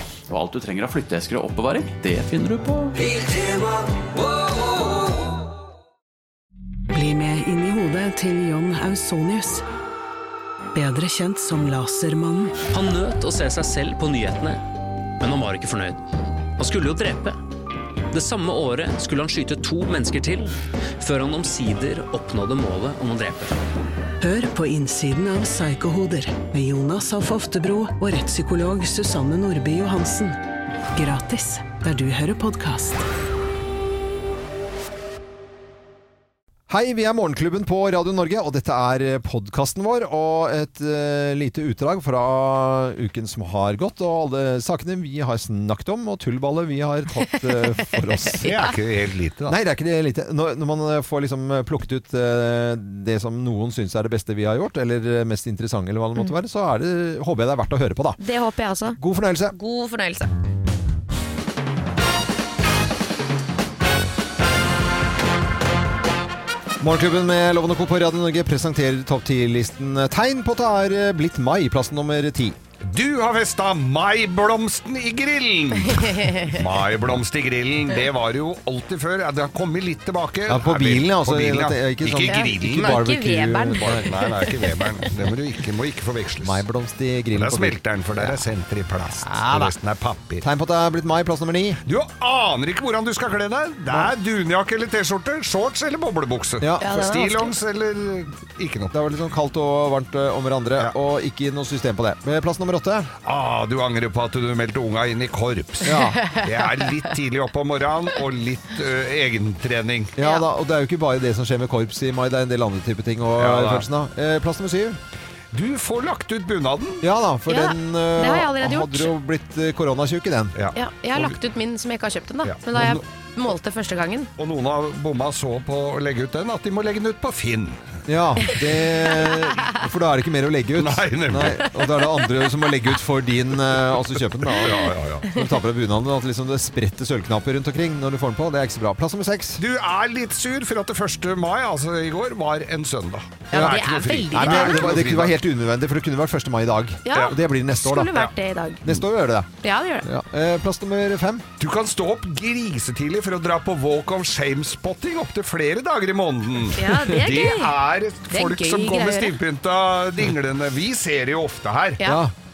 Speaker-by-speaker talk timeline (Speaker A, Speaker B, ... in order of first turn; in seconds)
Speaker A: 0.3-3.1
Speaker B: 3.1-3.8, 6.9-9.6, 10.8-12.6, 24.2-30.4, 30.9-33.0
Speaker C: 12.7-14.6, 15.2-16.0, 16.6-17.4, 18.1-23.6
Speaker D: 36.7-48.5, 49.5-58.2, 59.0-59.5, 66.8-72.6, 80.5-84.1, 86.4-88.4, 89.0-89.7, 90.4-91.8, 96.6-97.2, 98.9-103.1, 105.8-106.2, 110.2-115.0, 117.0-120.6, 128.1-139.6, 143.5-148.2, 148.8-149.5, 150.0-151.5, 162.0-162.3
Speaker E: 47.3-48.7, 58.2-59.0, 59.5-60.3, 75.9-76.6, 82.3-85.1, 96.8-97.5, 106.0-106.9, 110.2-110.5, 117.5-119.1, 120.8-124.3, 129.2-129.8, 143.5-145.0, 147.1-149.0, 149.6-150.1, 156.7-157.7, 158.3-159.4
Speaker F: 48.4-49.6, 72.9-83.0, 83.8-86.6, 87.3-90.5, 91.9-99.0, 103.2-110.2, 113.4-113.9, 115.5-117.0, 120.6-121.3, 122.5-123.0, 124.4-127.8, 130.8-131.7, 133.9-135.3, 139.6-145.4, 151.6-162.0